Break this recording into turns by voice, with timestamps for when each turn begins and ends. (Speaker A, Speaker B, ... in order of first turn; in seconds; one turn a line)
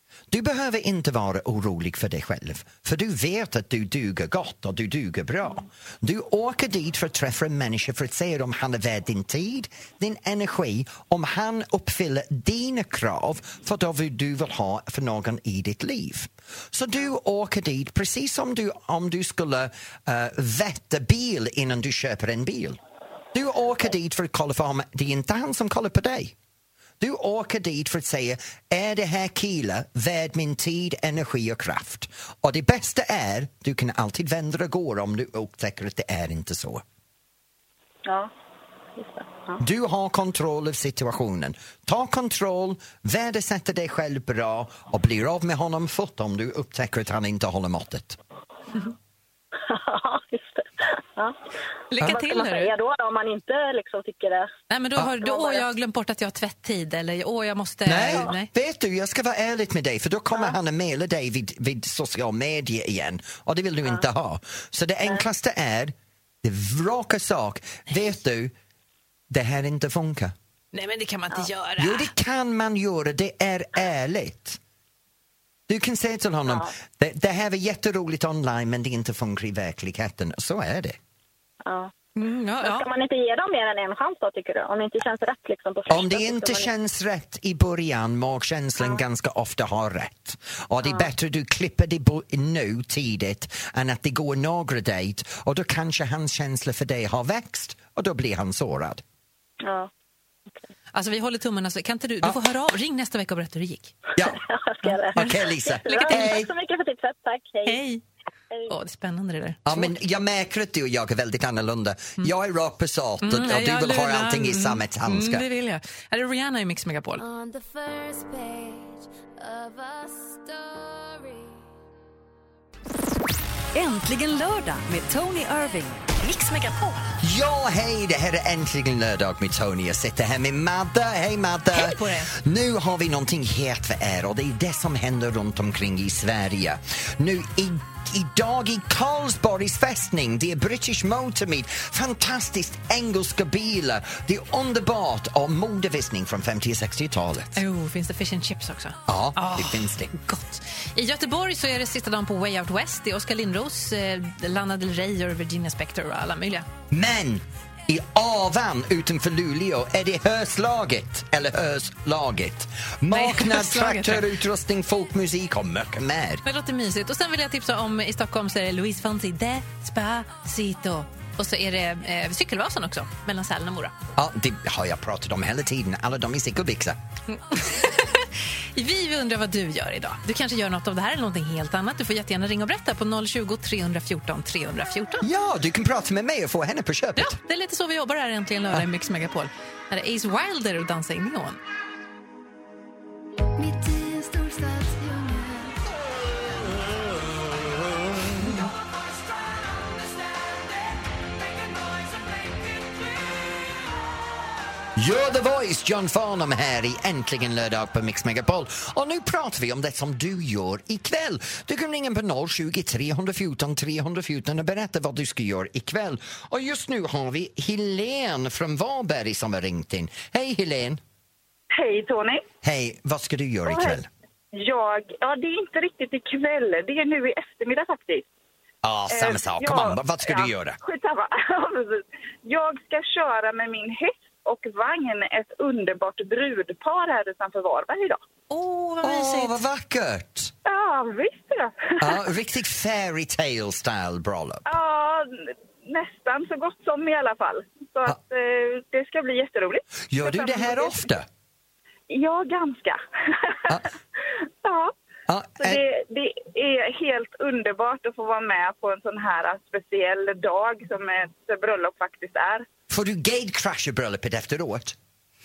Speaker A: 0.3-22.8
Speaker A: 23.3-26.3
Speaker A: 27.0-36.8
Speaker B: 38.0-38.3
Speaker B: 39.0-39.6
Speaker A: 39.6-48.2
Speaker B: 49.6-51.4
Speaker C: 51.9-52.7
Speaker B: 52.0-54.5
Speaker C: 54.7-58.5
Speaker B: 55.2-55.6
Speaker A: 57.8-68.5
Speaker A: 69.3-70.3
Speaker C: 70.7-72.1
Speaker A: 71.8-74.6
Speaker A: 75.7-81.0
Speaker B: 81.7-81.9
Speaker C: 82.2-82.9
Speaker B: 82.6-86.7
Speaker A: 85.9-99.0
Speaker B: 90.8-91.1
Speaker B: 99.6-99.9
Speaker C: 100.9-104.0
Speaker B: 104.2-107.8
Speaker C: 104.9-105.3
Speaker A: 105.1-106.5
Speaker C: 105.9-106.3
Speaker C: 107.6-108.0
Speaker C: 108.7-109.9
Speaker A: 109.6-115.4
Speaker C: 113.2-117.2
Speaker D: 117.2-121.7
Speaker E: 123.7-127.0
Speaker A: 127.2-147.6
Speaker C: 131.7-132.3
Speaker C: 147.6-156.7
Speaker A: 149.1-150.1
Speaker A: 156.9-166.4
Speaker C: 163.1-164.3
Speaker C: 166.4-173.9
Speaker A: 174.2-177.0
Speaker C: 177.3-185.3
Speaker A: 185.2-187.4
Speaker C: 187.2-191.6
Speaker A: 204.9-221.0
Speaker F: 221.7-222.4
Speaker A: 222.6-224.1
Speaker F: 223.7-223.9
Speaker F: 224.5-228.3
Speaker A: 228.8-230.8
Speaker F: 229.1-238.2
Speaker C: 238.5-239.6
Speaker A: 239.0-240.5
Speaker F: 240.6-242.2
Speaker A: 242.0-244.6
Speaker F: 244.7-251.0
Speaker A: 250.1-251.2
Speaker F: 252.1-253.8
Speaker F: 254.6-254.9
Speaker A: 255.3-255.8
Speaker F: 255.6-262.6
Speaker A: 262.9-264.9